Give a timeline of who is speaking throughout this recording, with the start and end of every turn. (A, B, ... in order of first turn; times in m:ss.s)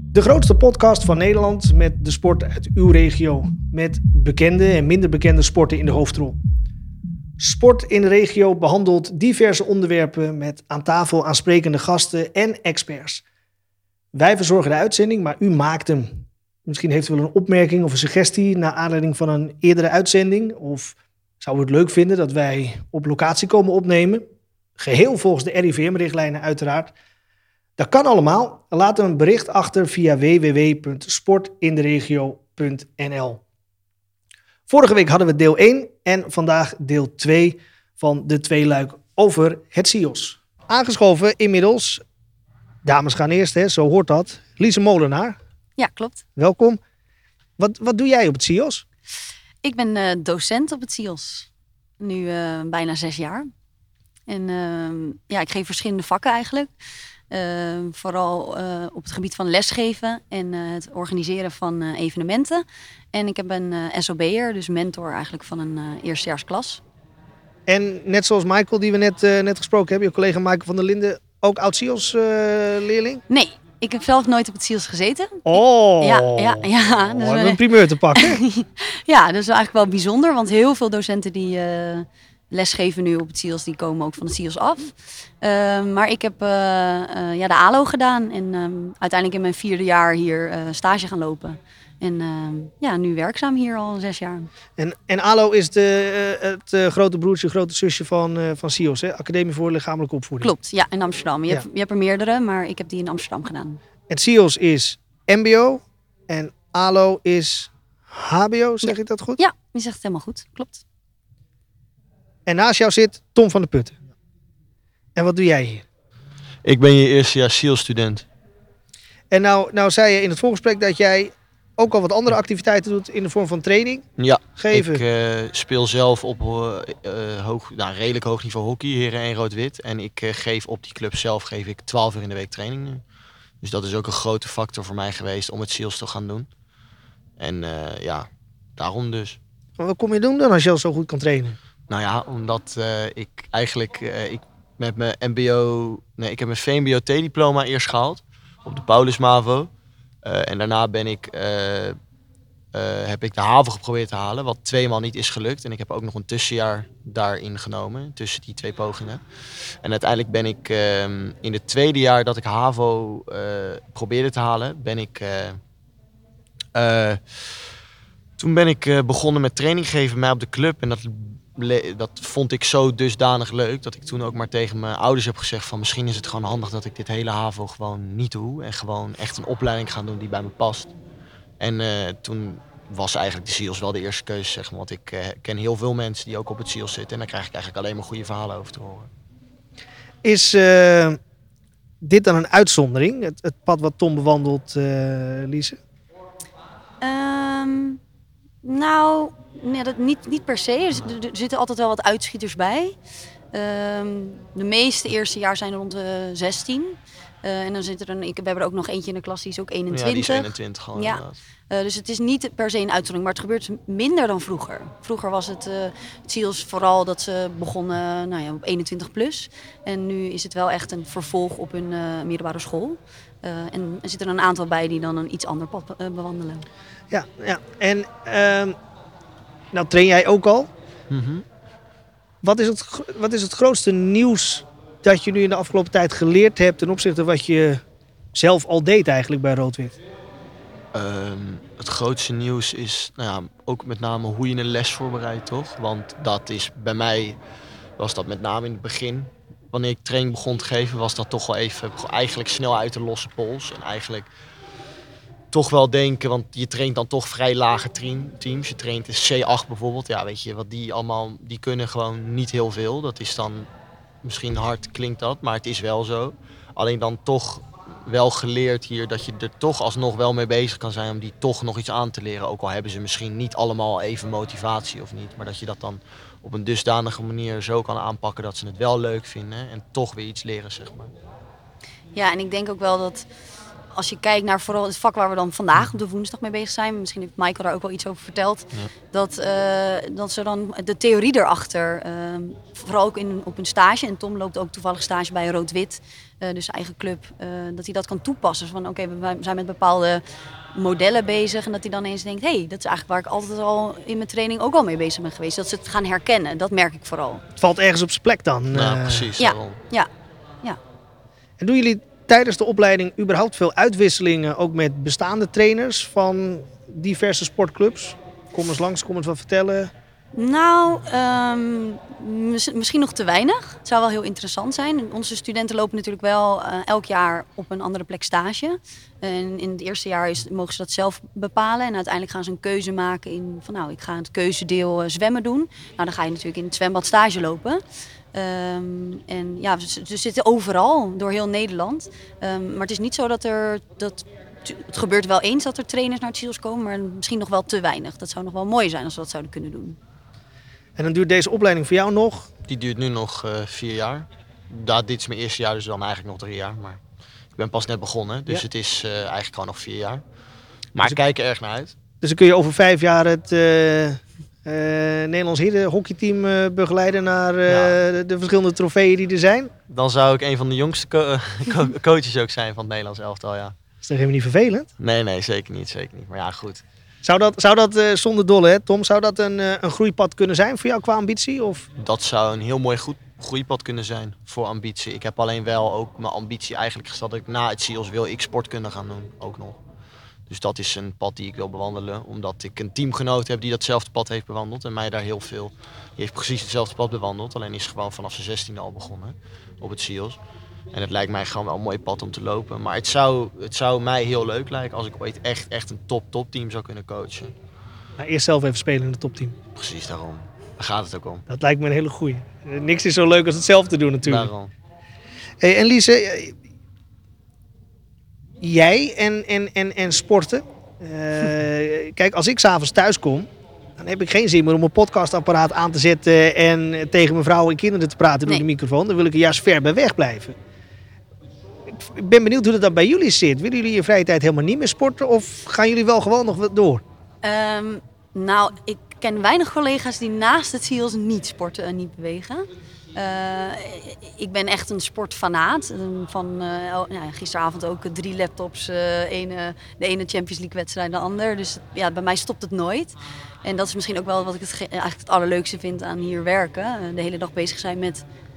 0:00.1-0:06.4 A
0:07.4-0:13.2 A
0:14.1-0:24.2 A
0:24.8-0:26.9 A
0:27.8-0:33.4 A
0:34.7-0:42.0 A
0:42.8-0:45.4 A
0:45.8-0:46.2 B
0:46.4-0:46.8 A
0:47.6-0:48.8 A
0:49.6-0:51.5 B
0:52.0-0:53.5 B
0:54.3-0:56.7 B
0:57.3-1:02.6 B
1:03.1-1:06.8 B
1:07.7-1:13.2 A
1:13.3-1:17.6 B
1:15.4-1:18.4 A
1:18.1-1:34.5 B
1:34.8-1:40.5 A
1:40.4-1:43.8 B
1:44.1-1:49.4 A
1:48.8-1:50.8 B
1:52.5-1:54.0 A
1:55.2-1:55.8 A
1:56.6-1:58.2 C
1:59.3-2:05.0 A
2:04.2-2:13.0 C
2:13.6-2:16.5 C
2:17.4-2:19.4 C
2:19.8-2:21.6 A
2:21.9-2:29.7 C
2:30.2-2:32.0 C
2:32.7-2:39.2 C
2:39.8-2:45.6 C
2:46.7-2:47.5 C
2:48.4-3:00.9 C
3:01.6-3:09.1 C
3:10.2-3:11.2 A
3:12.0-3:15.8 A
3:17.0-3:18.0 B
3:18.6-3:22.9 B
3:23.5-3:46.6 B
3:29.9-3:31.4 C
3:47.1-3:48.8 A
3:49.7-3:50.7 A
3:51.1-3:51.4 C
3:52.4-3:57.8 A
3:58.3-4:00.0 A
4:00.9-4:07.4 C
4:08.0-4:14.3 C
4:15.5-4:23.7 C
4:24.2-4:41.1 C
4:42.1-4:43.2 B
4:43.9-5:00.2 B
5:00.7-5:07.4 B
5:07.6-5:09.3 A
5:08.7-5:09.8 C
5:09.4-5:10.1 B
5:11.6-5:19.9 A
5:20.3-5:37.8 B
5:38.3-5:50.0 B
5:51.0-5:52.5 A
5:52.7-5:57.0 C
5:57.6-6:00.2 C
6:00.9-6:01.9 C
6:02.2-6:09.7 A
6:07.7-6:08.0 C
6:09.9-6:13.8 C
6:14.0-6:14.9 A
6:15.0-6:16.8 C
6:17.2-6:21.9 A
6:22.0-6:29.8 C
6:30.5-6:40.4 C
6:40.9-6:47.5 C
6:48.2-6:49.5 A
6:49.8-6:51.4 C
6:51.5-6:54.5 A
6:54.2-6:54.7 C
6:55.6-6:56.5 A
6:58.6-7:10.6 A
7:11.9-7:17.0 A
7:17.4-7:38.2 B